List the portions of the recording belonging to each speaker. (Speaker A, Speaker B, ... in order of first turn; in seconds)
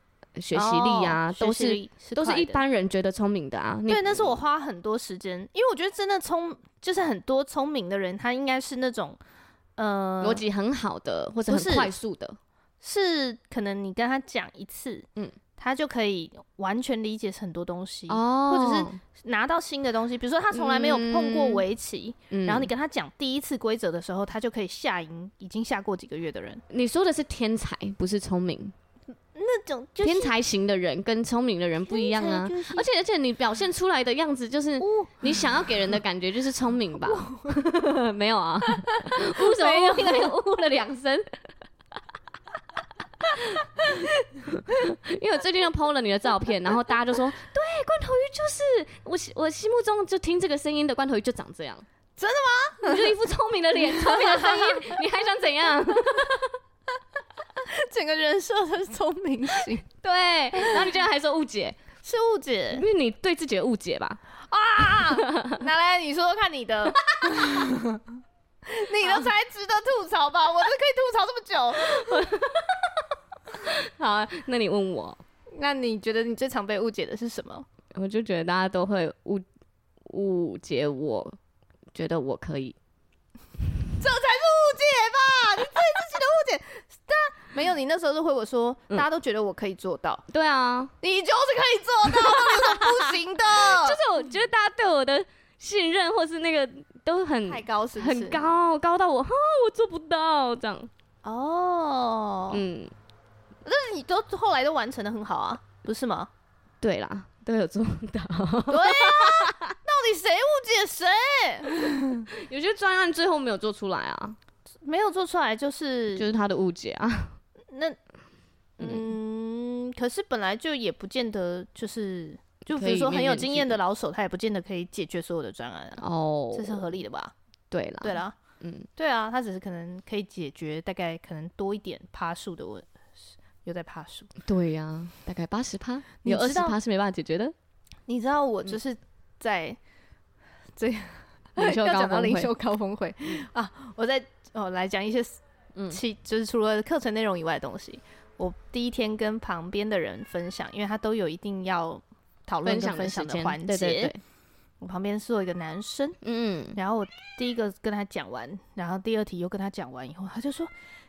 Speaker A: 0.4-4.4, 10.2-12.4, 18.1-19.0, 20.5-21.6, 22.3-22.7, 26.7-28.7, 30.0-41.4, 43.4-51.9, 52.8-56.6, 60.0-61.8, 62.7-64.2, 64.9-65.6, 71.8-72.9, 73.6-75.2, 77.9-79.4, 80.0-81.4, 81.9-82.8, 90.3-90.9, 92.1-100.9, 102.5-102.9, 106.8-109.8, 112.4-114.4, 116.2-117.4, 118.8-119.1, 122.7-123.8, 126.0-127.0, 127.7-128.9, 134.4-137.5, 141.6-142.5, 152.6-154.2, 156.2-156.8
Speaker B: 0.5-2.6, 3.9-9.2, 9.8-10.4, 11.5-11.9, 12.8-26.6, 29.3-30.3, 31.9-32.9, 34.8-35.5, 37.0-37.6, 39.4-40.3, 52.2-53.1, 53.8-55.0, 57.6-59.9, 60.5-60.9, 62.0-62.9, 64.5-68.0, 68.7-72.2, 75.5-77.7, 84.0-90.2, 91.0-94.0, 97.5-98.4, 101.2-102.6, 103.6-106.3, 108.7-112.2, 114.8-116.3, 117.7-118.0, 118.8-127.3, 128.0-128.4, 129.0-134.3, 136.2-136.8, 138.1-139.8, 140.8-154.1, 154.8-156.2, 156.8-160.7